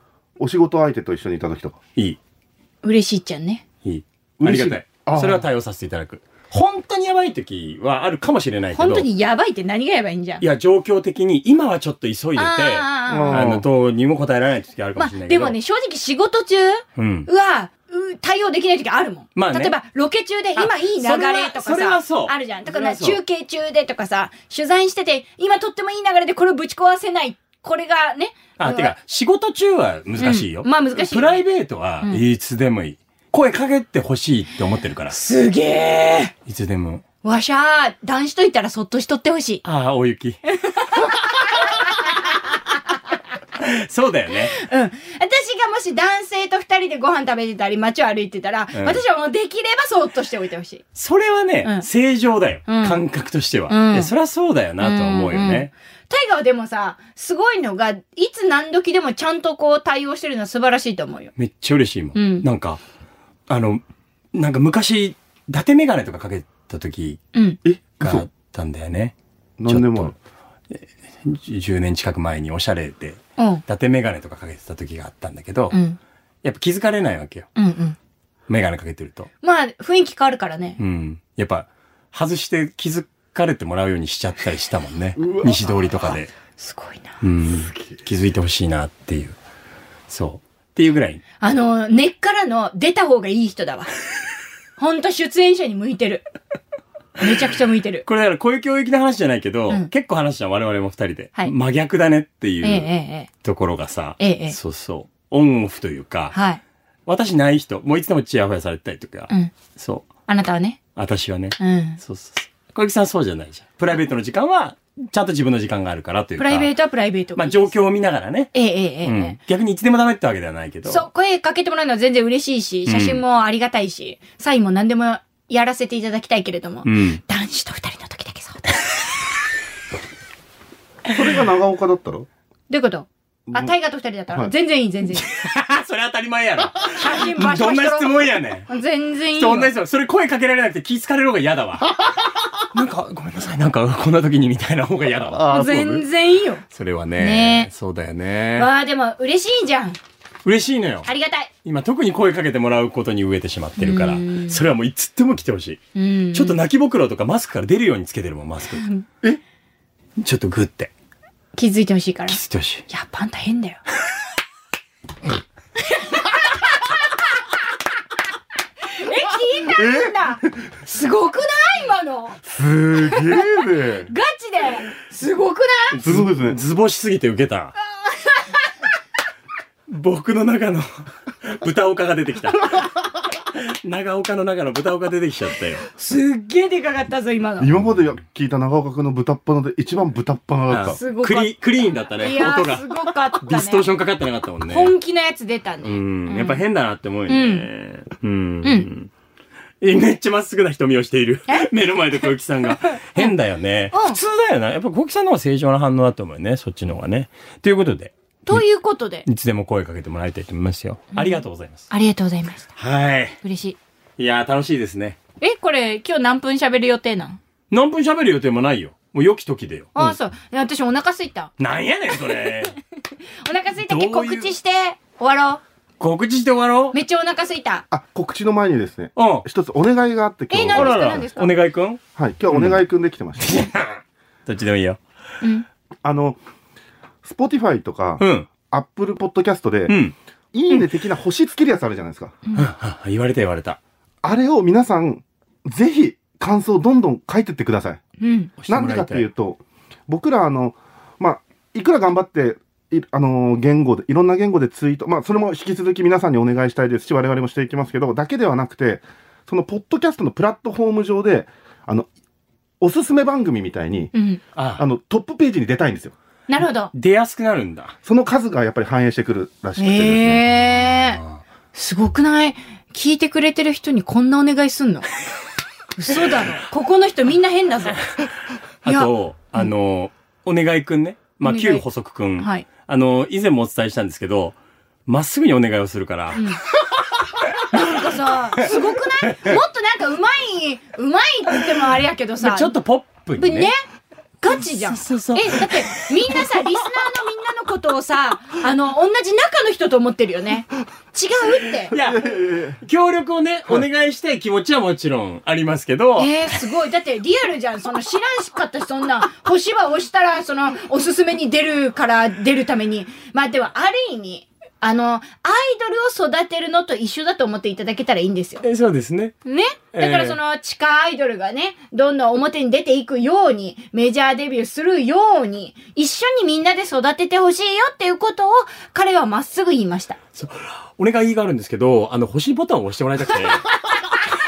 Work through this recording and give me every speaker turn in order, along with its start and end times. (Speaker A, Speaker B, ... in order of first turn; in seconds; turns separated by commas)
Speaker A: 0.4-1.8, Speaker B: 2.8-3.6, Speaker C: 3.8-9.1, Speaker A: 4.4-5.4, Speaker B: 8.7-10.4, Speaker C: 10.4-15.6, Speaker B: 12.3-13.5, Speaker A: 13.1-13.6, Speaker B: 15.0-28.9, Speaker C: 17.0-17.3, Speaker C: 19.4-19.8, Speaker C: 20.6-23.2, Speaker C: 28.6-35.2, Speaker B: 30.2-31.4, Speaker B: 35.1-36.3, Speaker C: 36.5-37.0, Speaker B: 37.2-39.6, Speaker C: 39.6-40.4, Speaker B: 40.5-42.4, Speaker C: 43.6-44.5, Speaker B: 44.5-50.8, Speaker C: 48.7-49.0, Speaker C: 50.9-55.7, Speaker B: 52.7-53.0, Speaker B: 53.7-54.1, Speaker B: 54.8-61.3, Speaker C: 61.4-62.8, Speaker B: 62.1-62.5, Speaker C: 63.5-63.8, Speaker C: 64.3-67.2, Speaker B: 67.3-67.6, Speaker A: 67.6-68.2, Speaker C: 68.0-69.1, Speaker A: 69.6-70.1, Speaker C: 69.7-70.1, Speaker C: 70.7-75.8, Speaker B: 73.4-73.6, Speaker B: 75.7-76.0, Speaker C: 76.4-77.5, Speaker B: 77.5-78.0, Speaker C: 78.5-79.3, Speaker B: 79.4-80.8, Speaker C: 80.8-86.3, Speaker A: 85.2-85.7, Speaker B: 86.6-87.2, Speaker C: 87.2-89.3, Speaker C: 90.1-91.2, Speaker B: 91.4-93.9, Speaker B: 94.8-96.2, Speaker B: 97.2-98.0, Speaker C: 98.0-102.9, Speaker B: 102.6-103.3, Speaker C: 103.4-106.3, Speaker B: 104.2-104.6, Speaker B: 106.3-106.6, Speaker C: 107.0-110.1, Speaker B: 110.3-110.8, Speaker C: 111.0-116.7, Speaker B: 111.6-112.0, Speaker B: 116.4-117.7, Speaker C: 117.3-118.5, Speaker B: 118.5-119.4, Speaker C: 119.0-121.0, Speaker B: 120.8-129.0, Speaker C: 122.8-123.2, Speaker C: 126.8-127.2, Speaker A: 131.1-132.3, Speaker B: 132.7-135.3, Speaker A: 133.5-133.7, Speaker C: 135.2-138.7, Speaker B: 136.9-139.7, Speaker C: 139.3-141.9, Speaker A: 142.0-142.5, Speaker C: 142.7-145.9, Speaker A: 145.3-146.0, Speaker B: 145.4-146.6, Speaker C: 146.7-148.7, Speaker B: 147.2-147.7, Speaker B: 148.6-150.0, Speaker C: 150.4-151.1, Speaker B: 151.1-151.5, Speaker C: 151.6-155.8, Speaker B: 153.8-154.6, Speaker B: 155.9-156.6, Speaker C: 156.3-159.3, Speaker B: 158.8-159.1, Speaker C: 160.2-160.9, Speaker B: 161.6-163.8, Speaker C: 162.3-162.8, Speaker B: 165.8-167.0, Speaker B: 168.9-172.4, Speaker A: 169.7-170.2, Speaker A: 172.4-174.1, Speaker B: 173.1-176.0, Speaker C: 175.9-177.7, Speaker A: 176.0-176.6, Speaker B: 177.9-178.7, Speaker C: 179.9-182.9, Speaker C: 183.5-185.8, Speaker B: 185.9-187.7, Speaker A: 187.6-191.0, Speaker C: 190.7-194.9, Speaker B: 190.8-191.5, Speaker B: 192.2-193.9, Speaker B: 194.7-196.6, Speaker C: 195.8-199.1, Speaker B: 197.3-197.7, Speaker B: 198.6-198.9, Speaker C: 199.8-208.6, Speaker B: 203.9-204.2, Speaker B: 208.4-209.2, Speaker C: 209.2-211.8, Speaker B: 211.2-212.7, Speaker C: 212.8-213.4, Speaker B: 213.4-213.8, Speaker C: 214.2-215.2, Speaker B: 215.4-217.4, Speaker C: 217.7-220.2, Speaker B: 219.9-221.5, Speaker C: 221.6-222.8, Speaker B: 222.2-222.7, Speaker B: 223.4-225.6, Speaker C: 223.9-224.5, Speaker C: 226.0-227.0, Speaker B: 226.9-227.8, Speaker A: 227.9-231.3, Speaker C: 229.2-229.4, Speaker B: 230.5-231.6, Speaker C: 230.6-232.8, Speaker A: 232.2-233.7, Speaker C: 233.4-235.0, Speaker A: 236.0-236.4, Speaker A: 237.2-240.0, Speaker C: 238.2-238.5, Speaker C: 239.9-240.1, Speaker A: 240.5-242.3, Speaker C: 242.5-243.8, Speaker A: 244.2-248.0, Speaker B: 248.2-248.5, Speaker C: 248.6-249.2, Speaker A: 248.7-262.1, Speaker A: 262.8-264.1, Speaker B: 264.1-264.4, Speaker C: 264.6-264.8, Speaker A: 264.8-266.1, Speaker B: 266.5-266.9, Speaker C: 266.9-267.9, Speaker A: 268.0-270.4, Speaker B: 269.8-271.2, Speaker C: 270.8-271.4, Speaker B: 271.7-275.1, Speaker B: 275.9-278.1, Speaker B: 278.8-279.7, Speaker C: 278.8-286.5, Speaker B: 281.4-281.8, Speaker B: 282.4-282.6, Speaker B: 286.3-286.6, Speaker C: 287.2-287.9, Speaker B: 287.7-292.7, Speaker C: 289.2-289.6, Speaker C: 292.4-293.7, Speaker B: 293.4-293.7, Speaker B: 294.4-301.9, Speaker C: 294.5-296.4, Speaker C: 301.9-306.4, Speaker A: 301.9-302.8, Speaker B: 306.2-318.6, Speaker C: 318.6-319.3, Speaker B: 319.4-330.2, Speaker C: 319.9-320.4, Speaker C: 330.4-333.6